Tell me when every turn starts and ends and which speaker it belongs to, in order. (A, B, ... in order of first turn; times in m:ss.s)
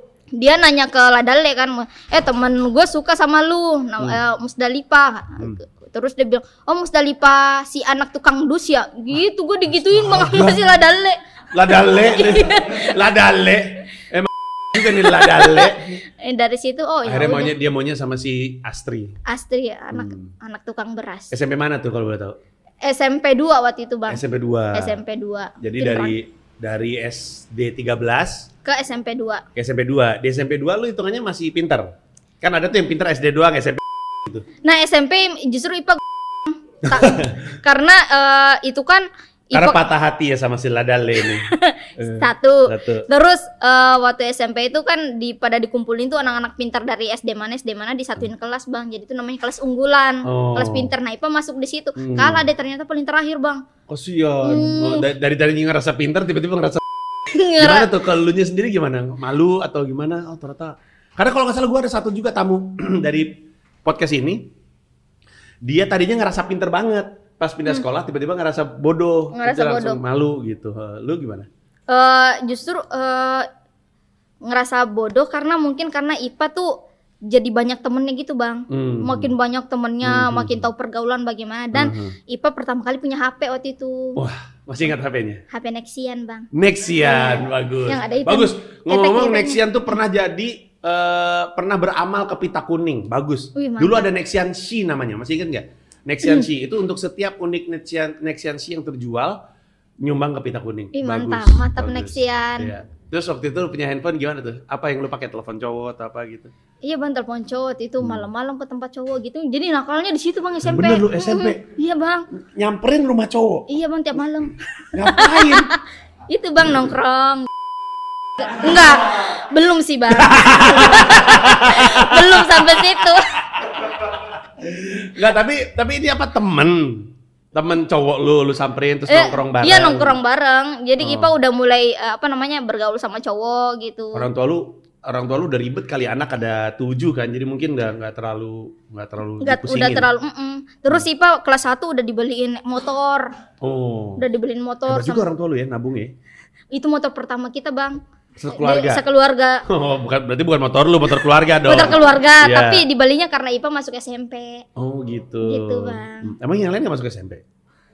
0:00.4-0:13.0 A
0:09.8-0:10.6 B
0:11.5-0:16.0 B
0:14.8-0:17.6 A
0:17.1-0:19.2 B
0:19.3-0:21.4 A
0:19.9-0:20.3 B
0:21.3-0:22.4 B
0:22.8-0:26.2 A
0:24.1-0:25.0 B
0:25.6-0:28.5 B
0:28.6-0:29.4 A
0:29.6-0:34.5 B
0:34.6-0:39.8 A
0:36.8-0:37.4 B
0:39.5-0:43.1 B
0:41.2-0:53.6 A
0:50.2-0:50.9 B
0:52.0-0:52.5 B
0:53.9-0:56.8 B
0:54.4-0:55.1 A
0:57.3-0:57.9 A
0:57.6-1:03.3 B
1:03.8-1:04.5 B
1:05.6-1:11.5 B
1:09.3-1:10.0 A
1:11.9-1:13.5 A
1:14.4-1:16.7 A
1:17.3-1:24.2 A
1:18.7-1:19.3 B
1:20.0-1:20.7 B
1:21.7-1:22.2 B
1:24.2-1:25.4 B
1:25.5-1:29.6 A
1:26.5-1:39.4 B
1:33.6-1:34.1 A
1:40.0-1:46.5 B
1:40.9-1:42.7 A
1:46.8-1:52.3 A
1:48.0-1:48.3 B
1:50.6-1:51.6 B
1:52.4-1:53.7 B
1:53.7-1:57.5 A
1:54.9-1:55.7 B
1:58.4-2:03.4 A
2:00.1-2:10.2 B
2:09.1-2:14.3 A
2:11.0-2:11.3 B
2:14.1-2:20.1 B
2:19.4-2:23.3 A
2:23.6-2:24.2 B
2:24.2-2:25.3 A
2:24.9-2:26.1 B
2:26.7-2:28.0 A
2:28.4-2:29.0 B
2:28.5-2:29.6 A
2:29.7-2:32.9 B
2:31.7-2:34.6 A
2:34.8-2:37.4 B
2:35.4-2:36.3 A